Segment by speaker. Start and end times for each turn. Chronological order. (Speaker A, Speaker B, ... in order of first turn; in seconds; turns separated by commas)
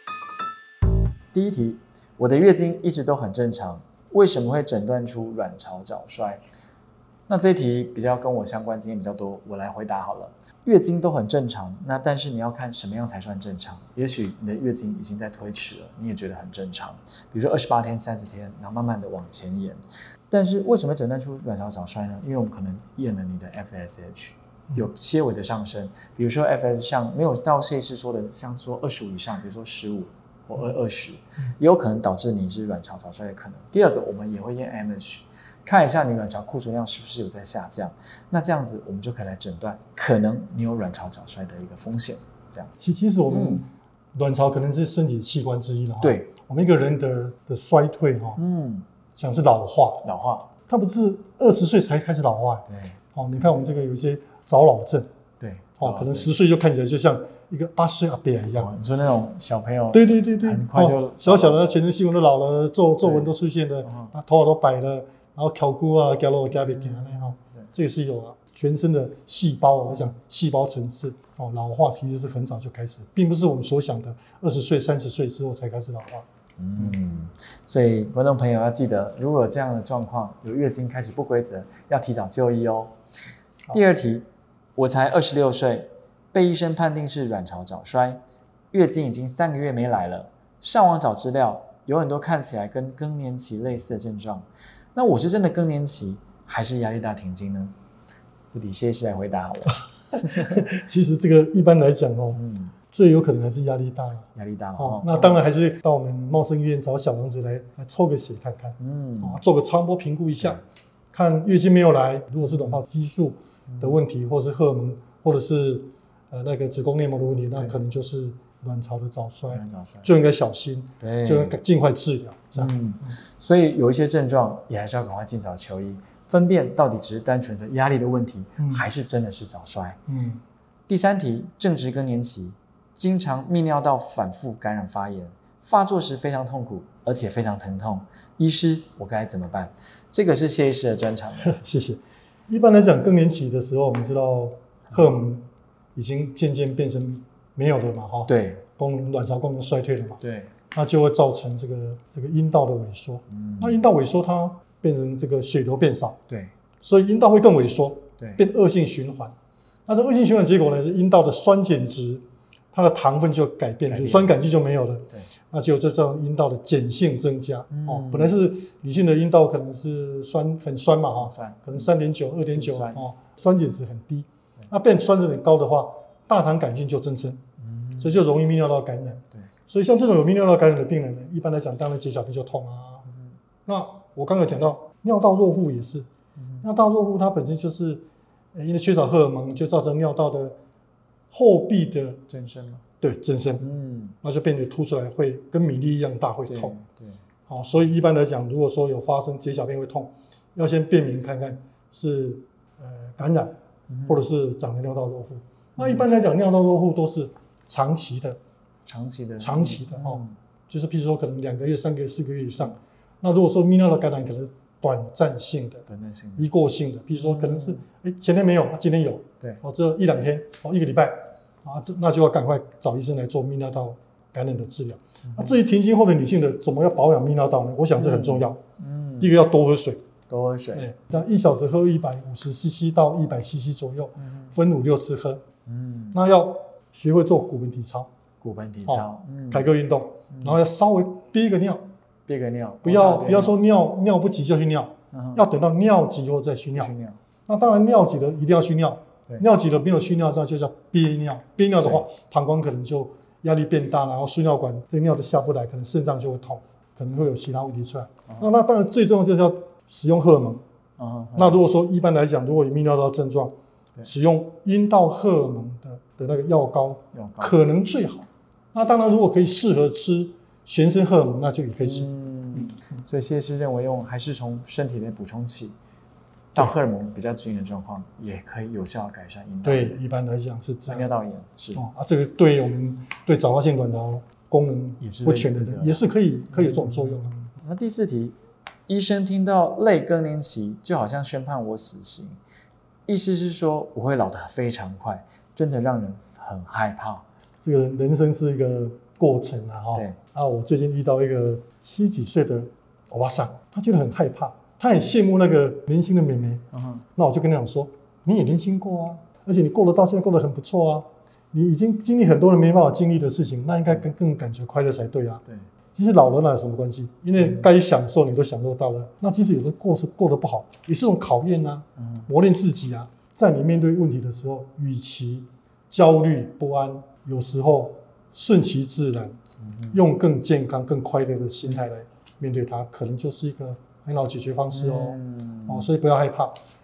Speaker A: 1.3-6.4, Speaker A: 7.3-19.8, Speaker A: 20.3-42.7, Speaker B: 42.8-48.4, Speaker A: 43.3-43.6, Speaker A: 46.0-46.3, Speaker A: 48.4-48.8, Speaker B: 49.1-50.1, Speaker A: 50.0-50.5, Speaker B: 50.7-55.1, Speaker A: 52.7-53.0, Speaker A: 55.4-56.3, Speaker B: 55.8-58.7, Speaker A: 58.5-61.7, Speaker B: 59.9-76.2, Speaker A: 63.0-63.3, Speaker A: 63.8-64.1, Speaker A: 66.5-67.7, Speaker A: 76.6-82.9, Speaker A: 83.7-84.2, Speaker A: 84.8-88.2, Speaker A: 88.7-97.7, Speaker A: 98.5-100.6, Speaker B: 100.1-102.4, Speaker A: 102.3-102.7, Speaker B: 102.9-104.3, Speaker A: 104.3-105.4, Speaker B: 104.8-110.6, Speaker A: 108.8-109.4, Speaker B: 111.1-123.2, Speaker A: 112.5-112.8, Speaker A: 113.7-114.0, Speaker A: 119.5-120.1, Speaker A: 121.0-121.6, Speaker A: 122.5-130.0, Speaker B: 128.6-128.8, Speaker B: 130.1-130.4, Speaker A: 130.9-141.6, Speaker B: 141.4-150.2, Speaker A: 148.2-148.6, Speaker A: 150.2-150.5, Speaker B: 150.7-156.2, Speaker A: 153.3-153.8, Speaker B: 156.8-159.3, Speaker B: 159.9-177.4, Speaker A: 163.9-164.3, Speaker A: 167.7-168.4, Speaker A: 171.2-171.9, Speaker A: 172.5-173.0, Speaker A: 177.6-178.2, Speaker B: 178.0-183.1, Speaker B: 183.7-186.1, Speaker A: 186.4-186.7, Speaker B: 186.6-188.0, Speaker B: 188.5-190.6, Speaker B: 191.3-192.2, Speaker A: 192.3-192.8, Speaker B: 193.0-193.6, Speaker A: 193.6-194.1, Speaker B: 194.2-196.7, Speaker A: 196.5-197.2, Speaker B: 197.5-203.5, Speaker A: 203.9-204.2, Speaker B: 204.1-208.4, Speaker A: 205.8-206.1, Speaker A: 208.8-210.3, Speaker B: 209.4-215.8, Speaker A: 215.9-216.5, Speaker B: 216.4-228.6, Speaker A: 217.1-217.8, Speaker A: 225.2-225.6, Speaker A: 228.0-229.3, Speaker B: 229.2-230.0, Speaker A: 230.3-230.9, Speaker B: 230.7-235.4, Speaker A: 234.2-234.5, Speaker A: 235.7-236.2, Speaker B: 236.1-238.1, Speaker A: 238.4-239.7, Speaker B: 238.8-241.8, Speaker A: 240.3-240.6, Speaker A: 242.3-243.6, Speaker B: 242.8-246.9, Speaker A: 245.1-245.4, Speaker A: 246.7-247.2, Speaker B: 247.5-260.6, Speaker A: 261.0-261.6, Speaker B: 261.4-272.1, Speaker A: 267.1-267.6, Speaker A: 271.8-275.7, Speaker A: 276.5-280.0, Speaker B: 279.6-281.1, Speaker A: 280.9-281.8, Speaker B: 281.7-287.5, Speaker A: 285.0-288.4, Speaker A: 288.9-292.4, Speaker A: 293.1-297.2, Speaker B: 297.6-315.4, Speaker A: 306.7-307.0, Speaker B: 315.9-329.4, Speaker A: 317.4-317.7, Speaker A: 322.0-322.3, Speaker A: 329.6-330.0, Speaker B: 329.9-336.6, Speaker A: 334.7-335.9